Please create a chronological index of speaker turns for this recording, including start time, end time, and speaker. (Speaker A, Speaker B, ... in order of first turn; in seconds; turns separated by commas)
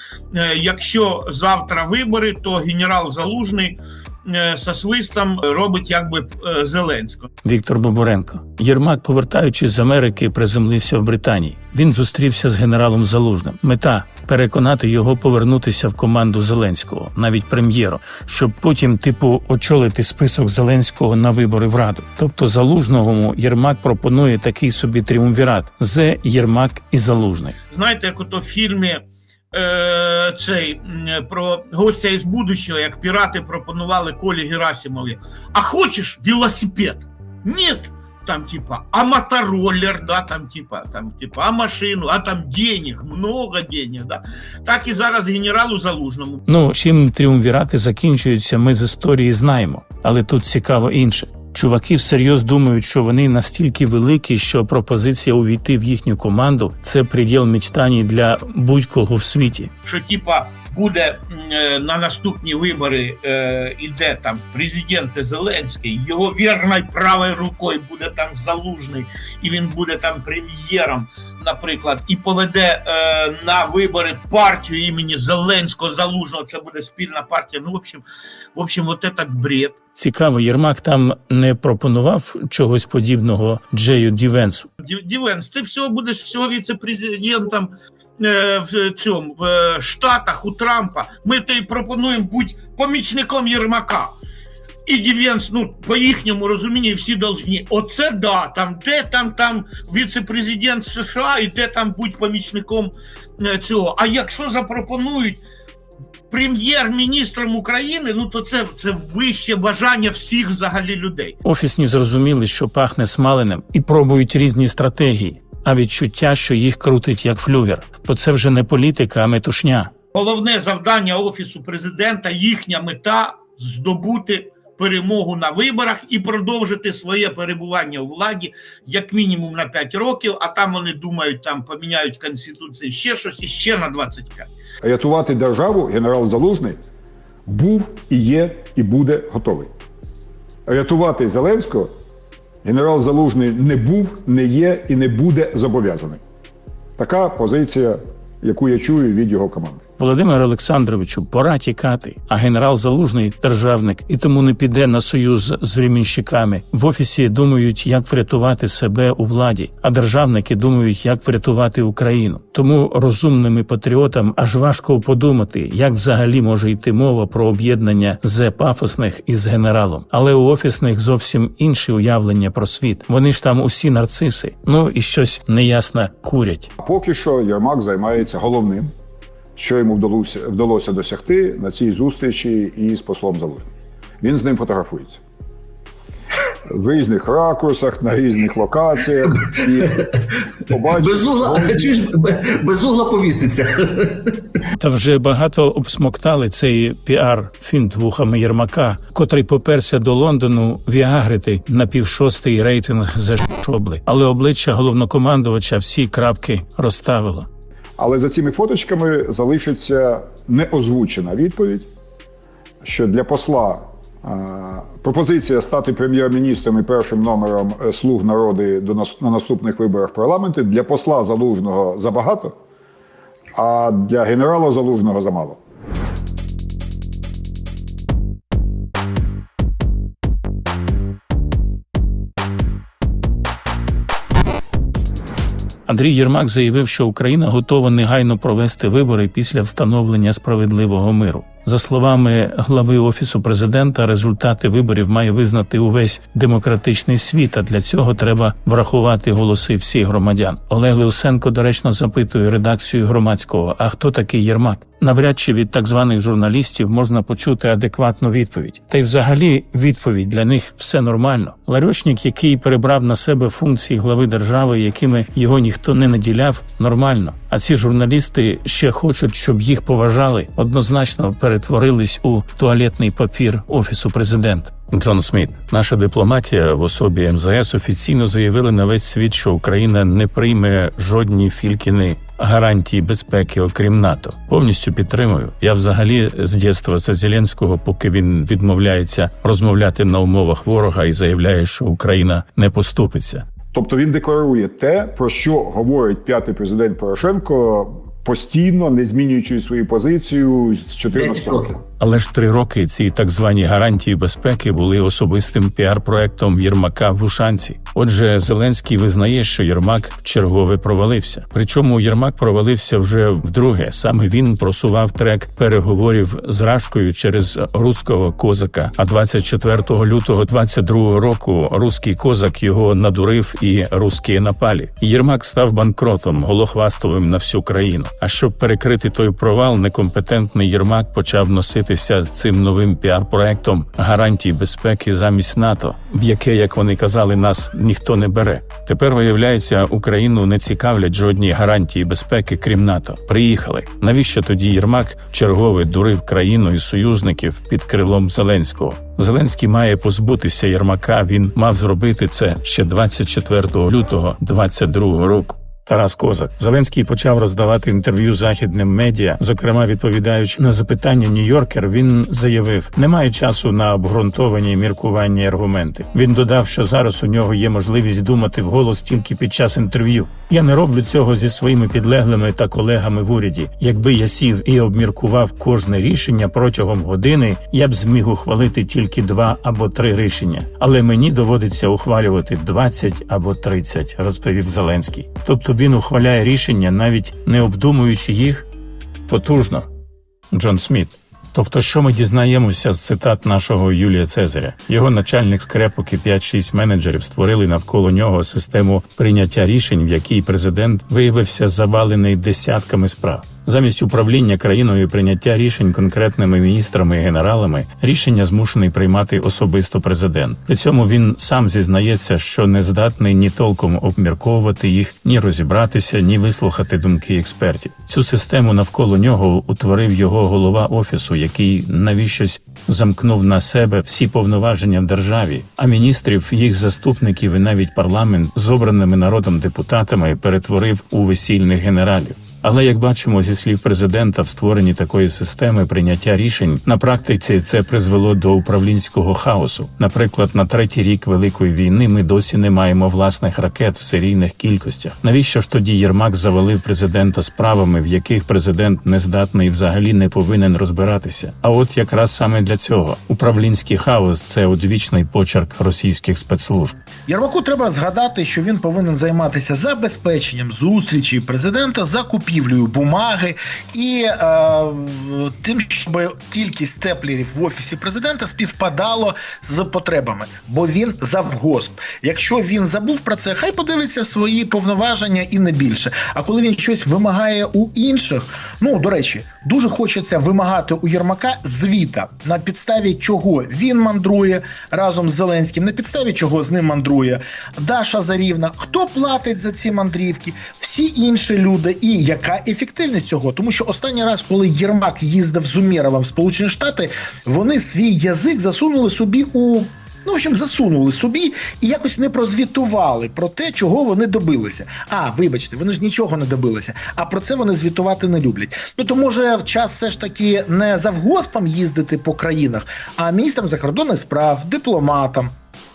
Speaker A: 0.3-7.3, Speaker B: 7.4-27.6, Speaker A: 27.7-46.4, Speaker B: 46.5-59.7, Speaker A: 59.8-78.0, Speaker A: 78.5-79.8, Speaker B: 80.0-84.7, Speaker A: 84.8-94.1, Speaker A: 94.8-105.4, Speaker A: 106.3-111.4, Speaker B: 111.4-119.9, Speaker A: 120.1-134.5, Speaker C: 134.8-136.8, Speaker C: 137.4-139.7, Speaker C: 140.7-141.9, Speaker C: 142.6-146.2, Speaker C: 147.0-149.8, Speaker B: 150.0-176.7, Speaker C: 176.8-178.9, Speaker C: 179.6-183.7, Speaker C: 184.2-185.2, Speaker C: 186.7-190.0, Speaker C: 190.7-192.0, Speaker D: 191.1-193.7, Speaker B: 194.8-207.5, Speaker C: 208.0-211.9, Speaker C: 212.8-222.5, Speaker C: 223.5-225.6, Speaker B: 235.9-293.4, Speaker C: 293.7-301.8, Speaker B: 302.0-388.6, Speaker B: 389.3-389.9, Speaker B: 390.5-456.9, Speaker E: 457.3-515.5